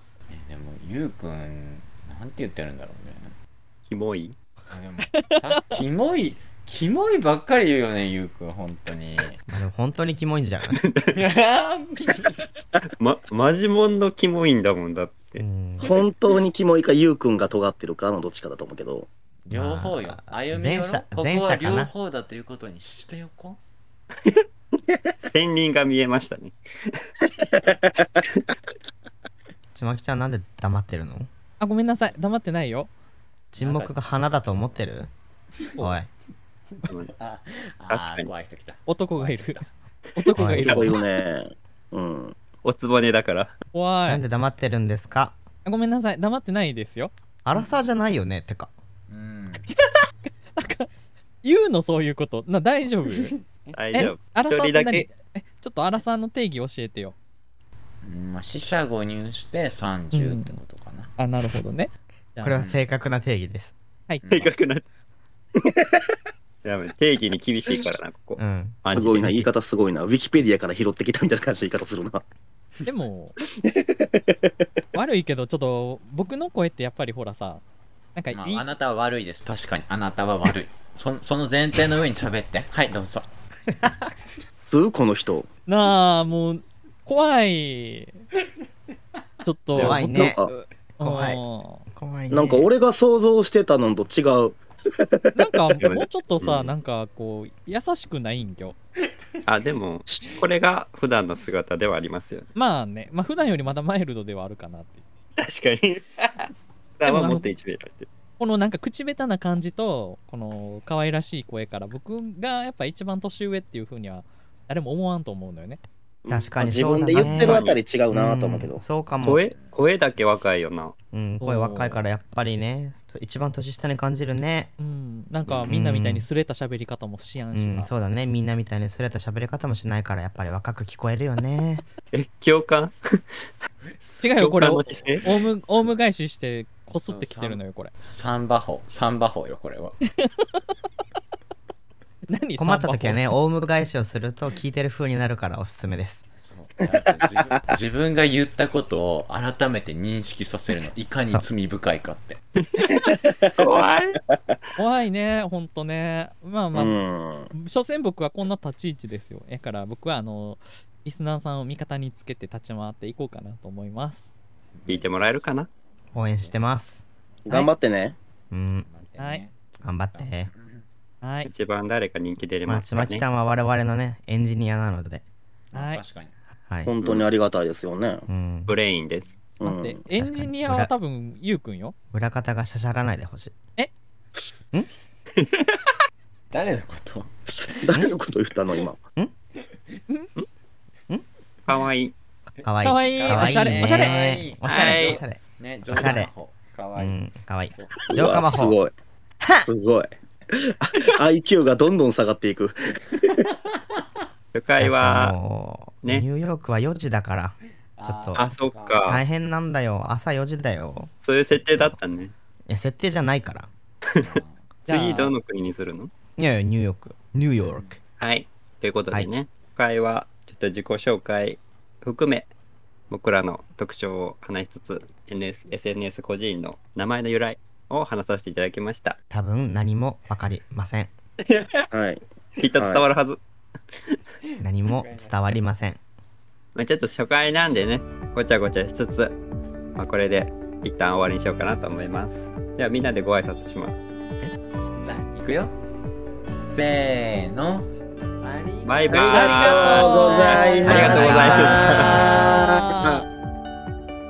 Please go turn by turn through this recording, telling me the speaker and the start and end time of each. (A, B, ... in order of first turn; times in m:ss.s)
0:00.3-0:03.3 A
0:03.8-0:04.4 B
0:04.7-0:09.4 A
0:05.1-0:05.7 C
0:09.5-0:10.8 D
0:11.1-0:12.4 A
0:12.8-0:15.4 B
0:15.4-0:16.0 D
0:15.8-0:19.1 E
0:19.4-0:23.6 A
0:19.5-0:21.9 D
0:25.3-0:27.0 B
0:29.7-0:31.3 D
0:31.6-0:32.9 C
0:33.5-0:35.1 D
0:33.6-0:34.9 A
0:35.6-0:35.9 A
0:35.8-0:36.1 D
0:36.7-0:39.7 A
0:36.9-0:37.1 B
0:37.9-0:38.3 B
0:38.8-0:41.0 C
0:40.4-0:40.8 D
0:40.6-0:42.3 E
0:40.6-0:40.9 B
0:42.6-0:43.5 B
0:43.7-0:44.2 C
0:44.0-0:45.4 D
0:45.6-0:47.1 C
0:47.4-0:48.7 D
0:49.1-0:49.7 A
0:49.7-0:50.9 C
0:51.4-0:53.4 C
0:53.1-0:53.8 A
0:53.7-0:55.0 B
0:53.9-0:57.2 C
0:58.0-1:01.1 A
1:00.1-1:00.6 C
1:01.2-1:02.6 C
1:02.4-1:03.7 D
1:02.5-1:02.8 A
1:04.2-1:04.6 A
1:04.3-1:04.8 B
1:05.6-1:06.0 E
1:06.6-1:09.3 B
1:08.4-1:09.5 D
1:08.9-1:12.2 E
1:12.8-1:13.4 C
1:13.6-1:14.2 E
1:14.9-1:17.6 C
1:18.1-1:18.7 C
1:18.3-1:23.3 A
1:24.7-1:25.5 E
1:25.7-1:28.2 C
1:29.4-1:31.8 C
1:29.7-1:30.0 B
1:29.7-1:31.4 D
1:30.1-1:30.5 E
1:31.9-1:32.7 D
1:32.3-1:35.3 E
1:35.3-1:38.8 C
1:35.8-1:36.7 B
1:39.4-1:42.4 B
1:42.5-1:45.0 C
1:45.4-1:48.1 B
1:47.0-1:47.5 C
1:48.4-1:55.8 C
1:56.2-1:58.8 E
1:56.3-1:59.4 D
1:57.1-1:57.8 B
1:59.2-2:00.9 B
1:59.4-1:59.8 A
2:01.1-2:04.7 D
2:01.4-2:02.0 C
2:04.8-2:07.9 C
2:05.5-2:06.2 D
2:07.5-2:11.8 D
2:12.1-2:13.2 B
2:13.8-2:15.9 A
2:14.2-2:17.9 C
2:14.4-2:15.2 B
2:16.9-2:20.0 A
2:20.2-2:20.6 C
2:22.3-2:23.2 C
2:22.6-2:26.2 D
2:26.4-2:32.4 A
2:26.9-2:27.6 E
2:32.6-2:34.2 B
2:34.8-2:37.0 C
2:36.7-2:37.5 E
2:37.5-2:44.3 C
2:44.7-2:45.4 A
2:44.9-2:45.7 B
2:46.1-2:47.0 D
2:47.4-2:48.2 E
2:48.5-2:48.9 D
2:48.8-2:50.8 A
2:49.2-2:49.4 C
2:49.8-2:50.5 D
2:51.2-2:51.5 C
2:51.4-2:53.2 B
2:52.7-2:55.2 D
2:55.7-2:56.4 A
2:55.7-2:56.0 C
2:56.6-2:56.9 D
2:56.8-2:58.2 E
2:58.3-2:58.8 D
2:58.7-2:59.3 B
2:59.6-3:00.0 E
2:59.6-3:01.9 C
3:00.1-3:00.9 D
3:02.1-3:03.5 D
3:05.4-3:05.7 B
3:06.5-3:08.0 A
3:07.7-3:09.0 E
3:09.6-3:10.0 A
3:11.6-3:12.1 B
3:12.6-3:16.3 D
3:12.6-3:17.2 A
3:12.8-3:14.1 C
3:14.6-3:15.2 B
3:17.0-3:18.8 D
3:17.7-3:18.1 A
3:18.1-3:18.9 E
3:19.4-3:19.7 D
3:19.6-3:23.4 E
3:24.5-3:25.4 B
3:24.8-3:28.4 D
3:28.0-3:29.2 A
3:28.3-3:29.2 B
3:29.0-3:32.0 D
3:31.2-3:32.3 B
3:32.7-3:33.7 D
3:34.1-3:36.1 B
3:34.2-3:34.7 A
3:34.9-3:35.3 C
3:36.4-3:38.0 D
3:37.6-3:38.0 A
3:38.2-3:42.5 B
3:43.1-3:49.2 B
3:49.3-3:51.1 D
3:51.5-3:51.9 B
3:51.9-3:52.2 E
3:52.6-3:53.4 B
3:52.8-3:53.1 E
3:54.4-3:55.3 A
3:54.6-3:56.0 D
3:56.7-3:59.3 B
4:00.0-4:03.9 B
4:05.0-4:05.7 A
4:06.5-4:07.9 A
4:08.4-4:13.2 A
4:08.8-4:12.2 B
4:09.1-4:12.6 E
4:10.8-4:12.2 D